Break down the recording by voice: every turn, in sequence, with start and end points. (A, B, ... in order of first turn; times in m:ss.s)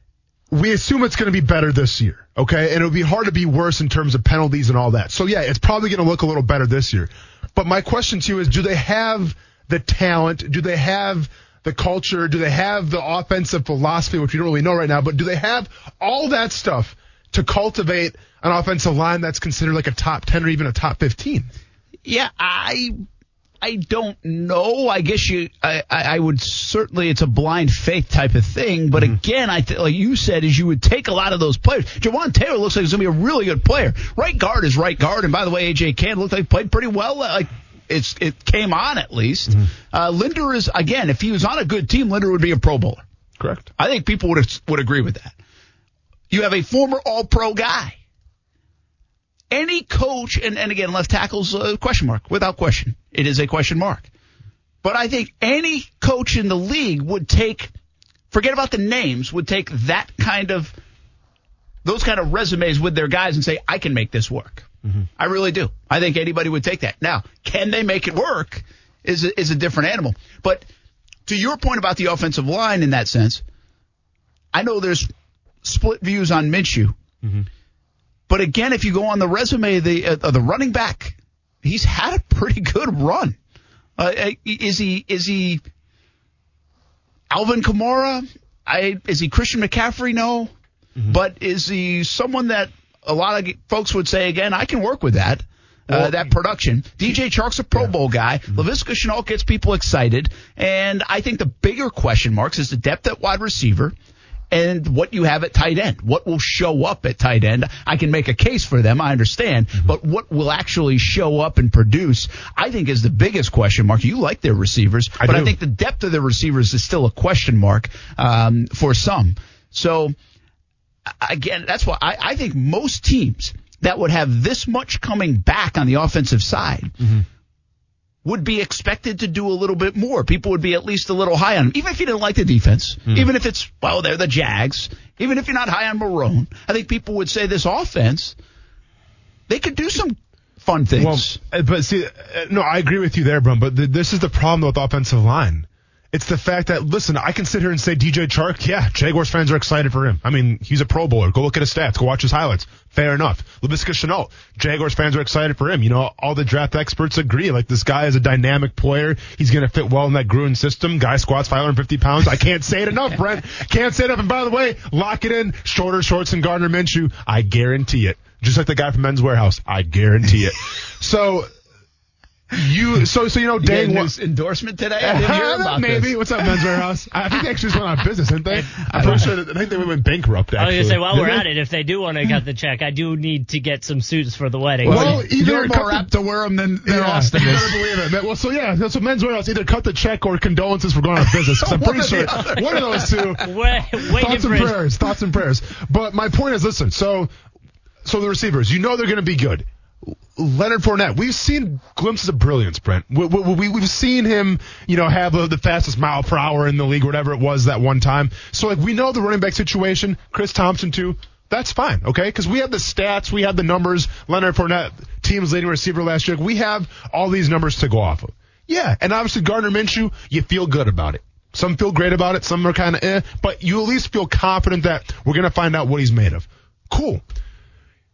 0:00.5-0:21.5 A
0:22.0-0:23.0 B
0:23.6-0:43.0 B
0:43.4-0:43.7 A
0:43.8-0:45.4 B
0:46.3-0:48.0 B
0:49.5-0:54.1 B
0:54.8-0:57.7 B
0:58.3-1:00.8 B
1:01.8-1:04.7 B
1:05.2-1:10.7 B
1:11.3-1:13.4 B
1:14.5-1:15.1 B
1:15.6-1:17.0 B
1:18.3-1:23.4 B
1:24.0-1:25.6 B
1:27.3-1:30.5 B
1:31.1-1:43.9 B
1:35.9-1:36.2 A
1:44.5-2:00.2 B
1:55.2-1:55.5 A
2:01.2-2:07.1 B
2:08.2-2:18.4 B
2:19.5-2:21.4 B
2:21.0-2:51.5 A
2:52.5-2:54.1 A
2:53.6-2:56.5 B
2:55.0-3:01.5 A
2:58.6-2:59.3 B
3:00.6-3:05.2 C
3:04.8-3:06.1 A
3:04.8-3:07.8 B
3:06.9-3:13.5 A
3:11.3-3:13.4 B
3:13.4-3:14.8 C
3:14.1-3:17.3 A
3:18.0-3:47.2 A